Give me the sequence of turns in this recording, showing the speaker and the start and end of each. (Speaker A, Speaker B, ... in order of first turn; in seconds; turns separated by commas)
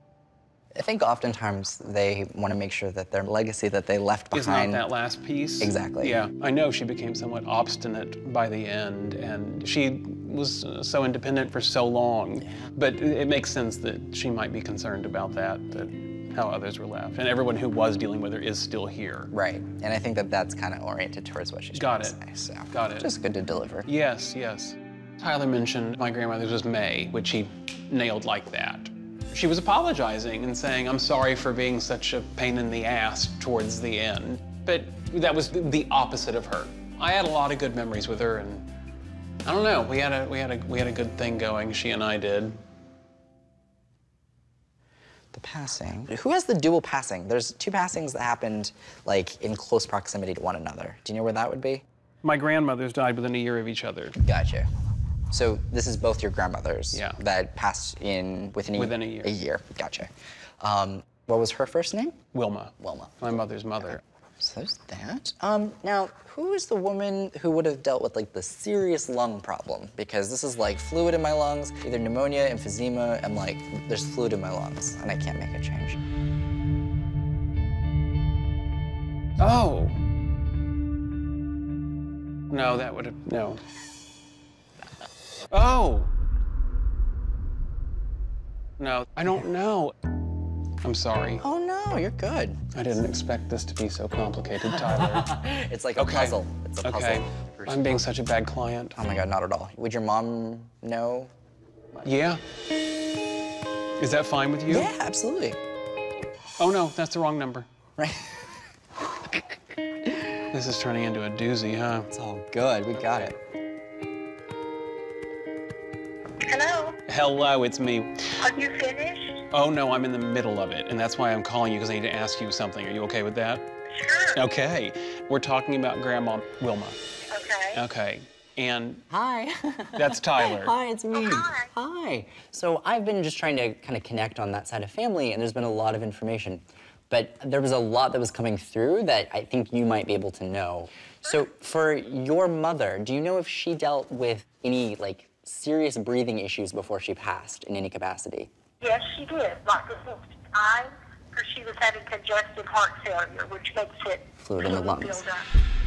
Speaker A: 0.7-4.8, Speaker B: 4.3-19.3, Speaker A: 5.6-6.2, Speaker A: 12.4-12.7, Speaker A: 19.3-23.9, Speaker B: 21.7-22.2, Speaker B: 22.7-23.1, Speaker B: 23.9-38.6, Speaker B: 39.4-42.5, Speaker A: 45.3-51.8, Speaker B: 52.2-54.2, Speaker A: 54.2-54.7, Speaker A: 55.3-62.2, Speaker B: 56.9-57.2, Speaker B: 58.8-59.4, Speaker B: 62.3-64.0, Speaker A: 62.8-76.0, Speaker B: 79.4-80.0, Speaker B: 82.5-83.6, Speaker B: 85.5-86.1, Speaker B: 88.8-90.0, Speaker B: 90.8-91.4, Speaker A: 91.4-92.7, Speaker B: 92.7-95.3, Speaker A: 94.6-98.0, Speaker B: 96.0-99.0, Speaker A: 98.9-101.3, Speaker B: 102.0-102.4, Speaker B: 104.0-104.9, Speaker A: 104.7-105.6, Speaker B: 106.6-107.7, Speaker A: 108.0-108.5, Speaker B: 110.5-112.1, Speaker A: 112.1-113.3, Speaker B: 112.9-113.3, Speaker C: 116.4-117.0, Speaker B: 117.1-118.4, Speaker C: 118.4-119.4, Speaker B: 119.5-123.7, Speaker C: 123.9-124.4, Speaker B: 124.3-127.0, Speaker C: 127.3-127.8, Speaker B: 127.7-129.0, Speaker A: 129.1-148.5, Speaker B: 129.9-130.7, Speaker C: 131.1-131.7, Speaker C: 148.8-155.4, Speaker A: 154.4-155.3